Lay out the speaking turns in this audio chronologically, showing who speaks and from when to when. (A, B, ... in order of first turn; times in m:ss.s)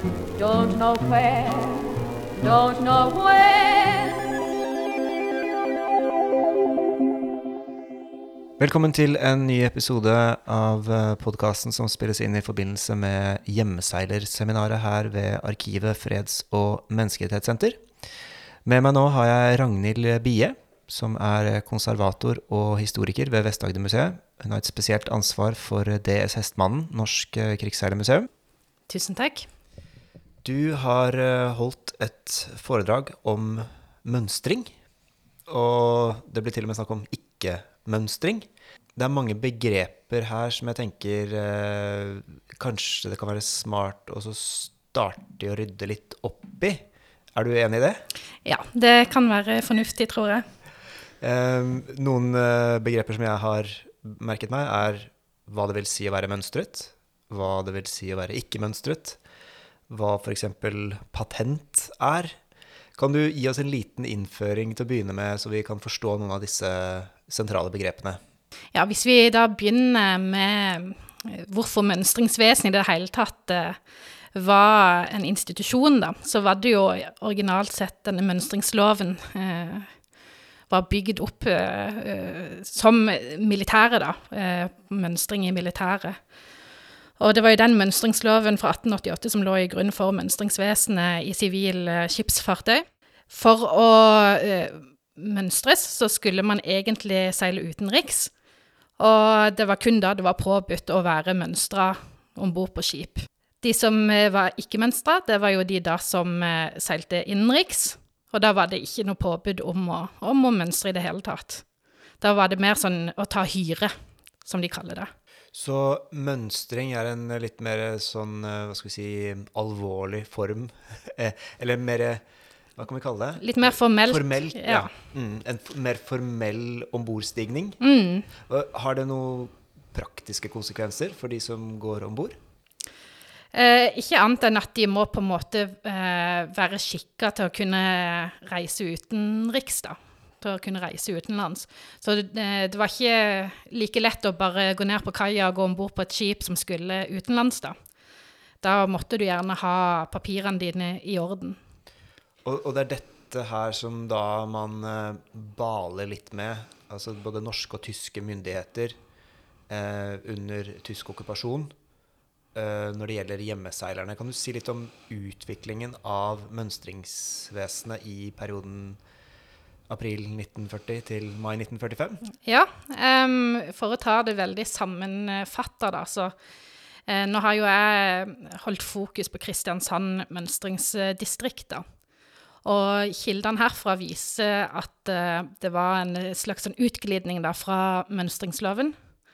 0:00.4-0:04.3 A
0:08.6-0:17.8 B
0:18.6-0:28.3 B
0:28.9-0:29.5 C
0:30.4-0:34.7 B
0:35.5-0:46.8 B
0:47.3-0:48.0 B
0:48.4-0:50.4 C
0:51.2-0:59.2 B
0:59.9-1:02.3 B
1:03.0-1:08.2 B
1:08.7-1:13.8 C
1:14.3-1:19.9 C
1:20.7-1:26.2 C
1:27.2-1:38.3 C
1:39.0-1:51.6 C
1:52.2-1:53.9 C
1:54.4-1:55.1 C
1:55.5-2:02.2 B
2:02.8-2:07.8 B
2:03.4-2:04.9 C
2:07.8-2:08.3 C
2:08.4-2:12.4 B
2:13.5-2:27.7 C
2:28.6-2:31.6 C
2:32.4-2:39.0 B
2:39.7-2:41.7 B
2:42.5-2:49.0 B
2:49.9-2:52.2 B
2:52.4-2:56.3 C
2:57.1-3:01.8 C
3:02.6-3:08.9 C